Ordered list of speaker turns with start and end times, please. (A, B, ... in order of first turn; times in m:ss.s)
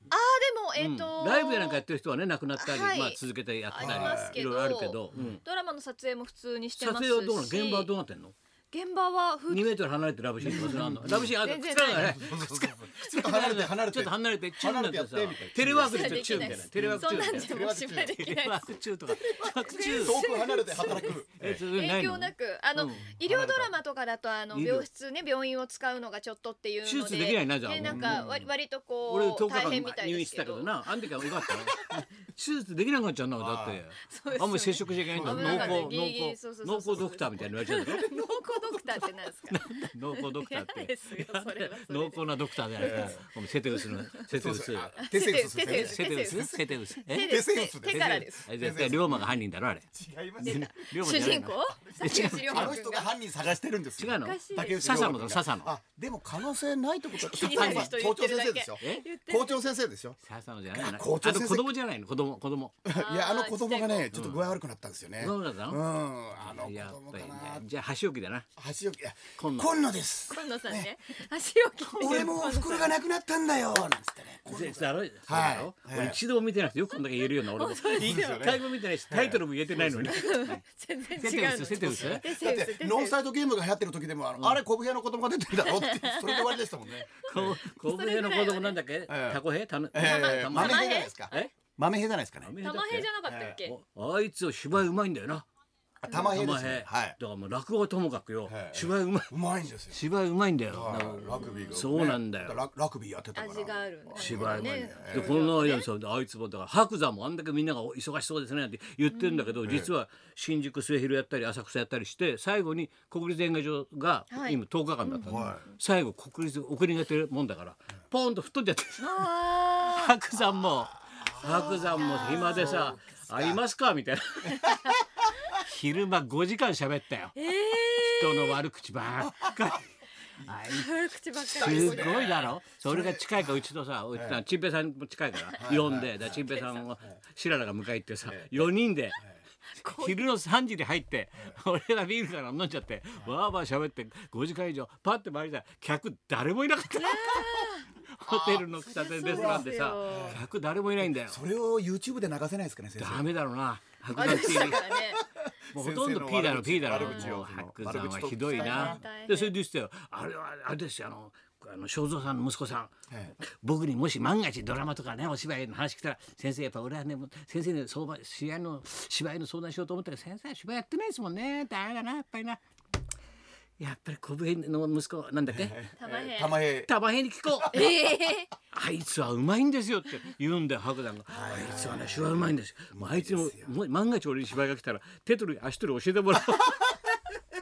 0:00.1-0:01.8 A
0:00.8-0:05.4 B
0:02.6-0:07.9 A
0:03.8-0:04.4 C
0:06.7-0:08.3 B
0:08.7-0:09.8 A
0:09.5-0:17.5 B
0:10.4-0:11.3 C
0:10.5-0:12.2 A
0:11.9-0:18.2 C
0:15.7-0:21.2 A
0:18.2-0:20.2 B
0:19.2-0:21.6 C
0:20.8-0:23.1 B
0:21.7-0:30.8 A
0:23.2-0:23.7 C
0:24.5-0:24.8 B
0:26.8-0:28.4 B
0:27.8-0:28.3 C
0:29.0-0:45.0 B
0:33.4-0:33.8 C
0:34.1-0:44.1 A
0:34.9-0:35.9 C
0:42.8-0:43.2 C
0:44.3-0:49.4 C
0:45.0-0:46.5 A
0:45.6-0:47.3 B
0:47.0-0:48.5 A
0:48.4-0:49.9 B
0:49.9-0:51.1 C
0:50.4-0:52.8 B
0:50.4-0:53.1 A
0:51.7-1:00.2 C
0:54.0-0:55.7 B
0:54.1-0:54.8 A
0:57.1-0:59.7 A
0:57.5-0:58.0 B
1:00.2-1:02.7 B
1:00.7-1:01.7 C
1:02.8-1:07.7 C
1:02.9-1:04.2 A
1:04.1-1:04.4 B
1:05.2-1:05.8 B
1:06.4-1:08.5 B
1:08.6-1:10.9 C
1:09.4-1:09.8 B
1:10.3-1:12.9 A
1:11.9-1:16.2 C
1:14.5-1:20.5 B
1:17.4-1:18.5 A
1:17.9-1:20.6 C
1:20.1-1:23.2 A
1:21.2-1:22.2 B
1:21.8-1:27.6 C
1:25.6-1:26.6 A
1:27.2-1:31.5 B
1:27.7-1:28.8 A
1:29.1-1:29.4 C
1:29.9-1:32.5 C
1:30.0-1:31.5 A
1:32.4-1:35.4 B
1:32.6-1:33.7 A
1:33.2-1:33.6 C
1:36.0-1:37.2 C
1:36.1-1:39.3 B
1:38.5-1:40.0 C
1:39.9-1:42.6 B
1:40.7-1:45.4 C
1:41.3-1:41.8 A
1:43.3-1:45.9 A
1:44.2-1:59.2 B
1:49.1-1:49.6 A
1:49.6-1:49.9 C
1:54.3-1:55.4 A
1:55.2-1:55.6 C
1:59.0-2:00.1 A
1:59.9-2:04.9 B
2:01.1-2:03.6 C
2:01.4-2:02.9 A
2:04.7-2:05.2 C
2:05.6-2:09.9 B
2:07.4-2:08.6 A
2:10.4-2:10.9 B
2:10.6-2:12.3 A
2:11.5-2:13.5 C
2:11.6-2:19.2 B
2:14.1-2:14.4 C
2:15.6-2:16.4 C
2:16.3-2:16.9 A
2:18.2-2:19.4 C
2:19.8-2:20.3 A
2:19.8-2:31.4 B
2:26.9-2:27.9 A
2:28.2-2:28.7 C
2:28.8-2:30.4 A
2:29.2-2:30.4 C
2:31.0-2:33.3 C
2:33.0-2:34.8 B
2:34.1-2:35.2 A
2:34.2-2:39.0 C
2:35.7-2:52.6 B
2:37.0-2:37.3 A
2:38.4-2:39.5 A
2:43.1-2:43.4 C
2:53.8-2:55.9 B
2:55.5-2:56.9 C
2:56.0-2:56.7 A
2:56.8-2:58.1 B
2:57.5-2:57.9 C
2:57.7-2:58.5 A
2:58.7-3:07.1 B
3:01.3-3:03.7 C